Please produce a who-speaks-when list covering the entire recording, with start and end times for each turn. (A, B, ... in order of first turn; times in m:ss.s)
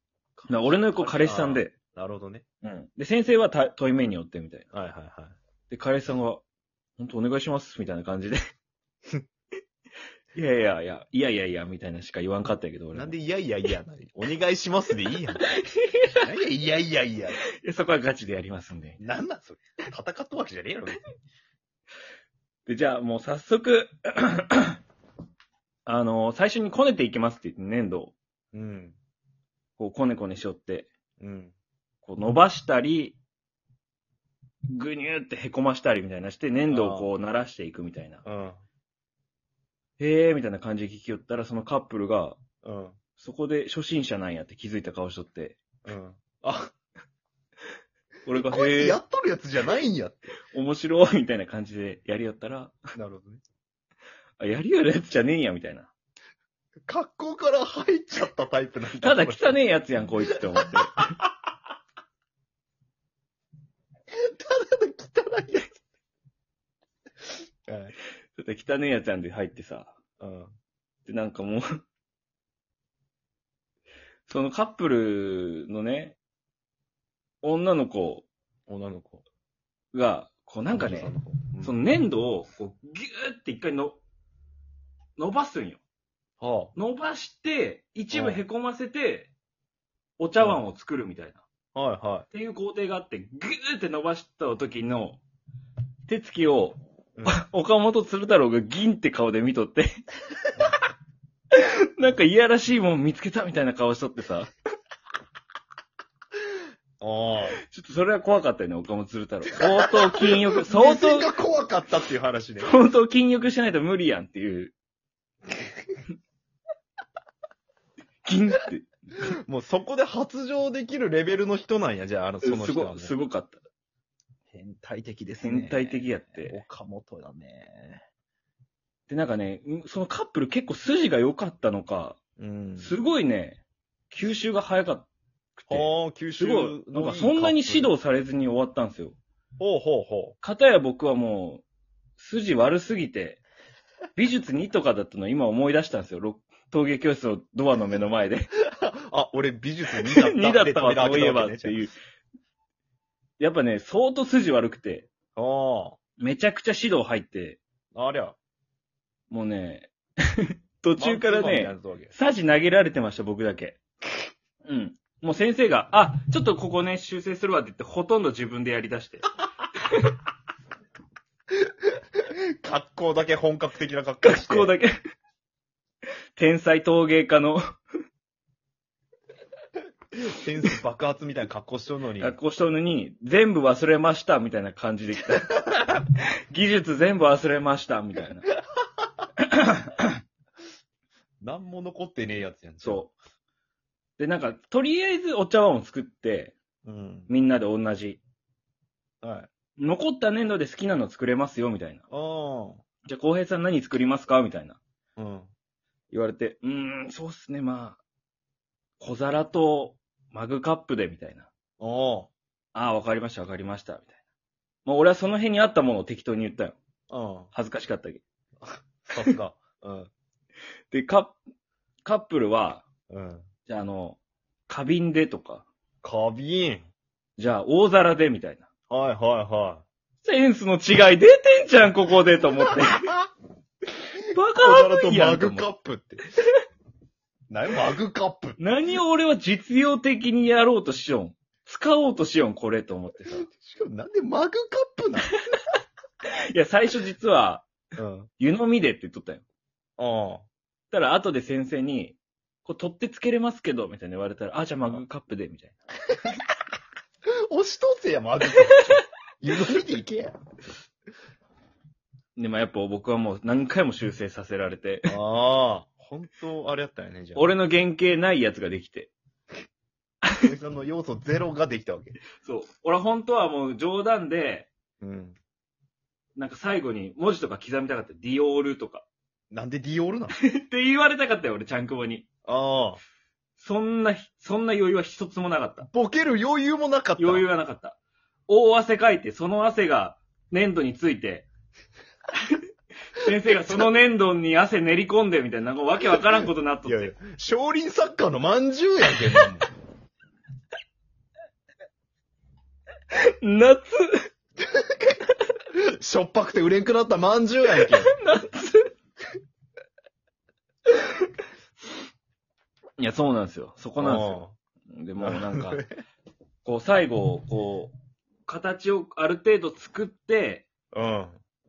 0:00.4-0:02.4 A
0:00.5-0:01.7 B
0:02.6-0:04.7 B
0:04.7-0:05.3 A
0:05.7-0:06.4 B
0:07.0-0:08.4 B
0:10.3-0:13.1 B
0:12.9-0:15.4 A
0:15.5-0:16.2 B
0:16.2-0:17.4 A
0:17.6-0:19.0 B
0:19.0-0:21.0 A
0:22.6-0:24.8 B
0:25.8-0:28.1 B
0:28.5-0:29.0 A
0:29.8-0:30.9 B
0:31.2-0:31.5 A
0:32.0-0:33.2 B
0:34.7-0:38.2 B
0:36.7-0:37.1 A
0:38.2-0:38.6 A
0:40.0-0:42.4 B
0:42.6-0:43.0 A
0:43.2-0:45.6 B
0:45.8-0:46.7 A
0:48.2-0:49.0 B
0:48.3-0:50.3 A
0:50.5-0:52.8 B
0:53.0-0:53.4 A
0:54.4-0:55.9 B
0:56.9-0:59.6 A
0:59.0-1:01.1 B
1:00.2-1:00.6 A
1:04.2-1:05.7 A
1:07.7-1:07.9 A
1:08.3-1:09.9 B
1:10.2-1:10.5 A
1:11.0-1:11.6 B
1:14.3-1:16.2 B
1:17.4-1:18.3 B
1:18.7-1:19.2 A
1:19.9-1:24.0 B
1:20.7-1:21.7 A
1:25.2-1:25.8 B
1:26.4-1:26.7 A
1:26.7-1:29.3 B
1:28.1-1:28.4 A
1:30.2-1:31.4 B
1:31.7-1:32.3 A
1:32.3-1:35.2 B
1:36.1-1:39.9 B
1:41.5-1:44.5 B
1:47.0-1:47.6 A
1:47.7-1:51.3 B
1:49.5-1:52.7 A
1:52.6-1:54.7 B
1:58.2-1:58.9 B
1:59.4-2:03.1 A
2:02.4-2:03.6 B
2:04.5-2:08.0 A
2:05.4-2:06.6 B
2:09.1-2:12.2 B
2:12.4-2:12.9 A
2:12.8-2:19.2 B
2:15.7-2:17.9 A
2:19.6-2:20.4 A
2:20.4-2:21.6 B
2:22.2-2:23.4 B
2:24.2-2:28.5 B
2:28.7-2:31.8 A
2:30.2-2:31.9 B
2:33.4-2:35.1 B
2:35.4-2:36.0 A
2:36.2-2:37.6 B
2:37.9-2:38.4 A
2:39.3-2:43.8 B
2:41.0-2:42.1 A
2:44.6-2:49.3 B
2:52.2-2:54.7 A
2:54.2-2:54.9 B
2:56.4-2:57.6 B
3:00.2-3:02.4 A
3:02.2-3:08.4 B
3:09.4-3:10.2 B
3:11.4-3:13.0 A
3:12.8-3:13.1 B
3:14.2-3:16.5 B
3:16.8-3:17.3 A
3:17.3-3:18.2 B
3:19.2-3:19.5 A
3:19.8-3:22.0 B
3:22.1-3:22.8 A
3:23.0-3:24.8 B
3:25.2-3:25.5 A
3:26.1-3:28.0 B
3:29.0-3:31.5 B
3:31.8-3:32.3 A
3:32.7-3:34.1 B
3:34.8-3:36.8 B
3:37.1-3:37.5 A
3:37.5-3:38.2 B
3:38.6-3:40.1 A
3:40.9-3:41.4 B
3:42.0-3:42.8 B
3:43.1-3:43.4 A
3:43.6-3:45.6 B
3:46.0-3:46.8 A
3:47.4-3:48.6 B
3:48.9-3:49.8 A
3:50.2-3:53.1 B
3:54.3-3:55.7 B
3:54.3-3:56.2 A
3:57.5-3:58.6 A
3:58.6-4:03.5 B
4:03.3-4:05.4 A
4:06.3-4:07.7 B
4:08.0-4:08.3 A
4:08.4-4:09.4 B
4:10.0-4:10.4 A
4:10.9-4:15.7 B
4:17.5-4:20.4 A
4:18.7-4:19.0 B
4:22.4-4:25.2 B
4:25.1-4:27.5 A
4:27.3-4:29.1 B
4:30.4-4:32.2 A
4:32.4-4:34.7 B
4:35.0-4:35.4 A
4:36.4-4:39.0 B
4:39.5-4:40.3 A
4:40.3-4:42.2 B
4:42.4-4:43.0 A
4:43.6-4:45.9 B
4:45.9-4:47.4 A
4:47.2-4:51.5 B
4:53.2-4:57.1 B
4:56.8-4:59.7 A
5:03.1-5:04.1 B
5:05.7-5:08.1 A
5:08.0-5:08.9 B
5:13.0-5:15.8 B
5:14.0-5:14.5 A
5:15.2-5:15.9 A
5:16.6-5:17.9 B
5:18.4-5:20.7 B
5:20.9-5:21.4 A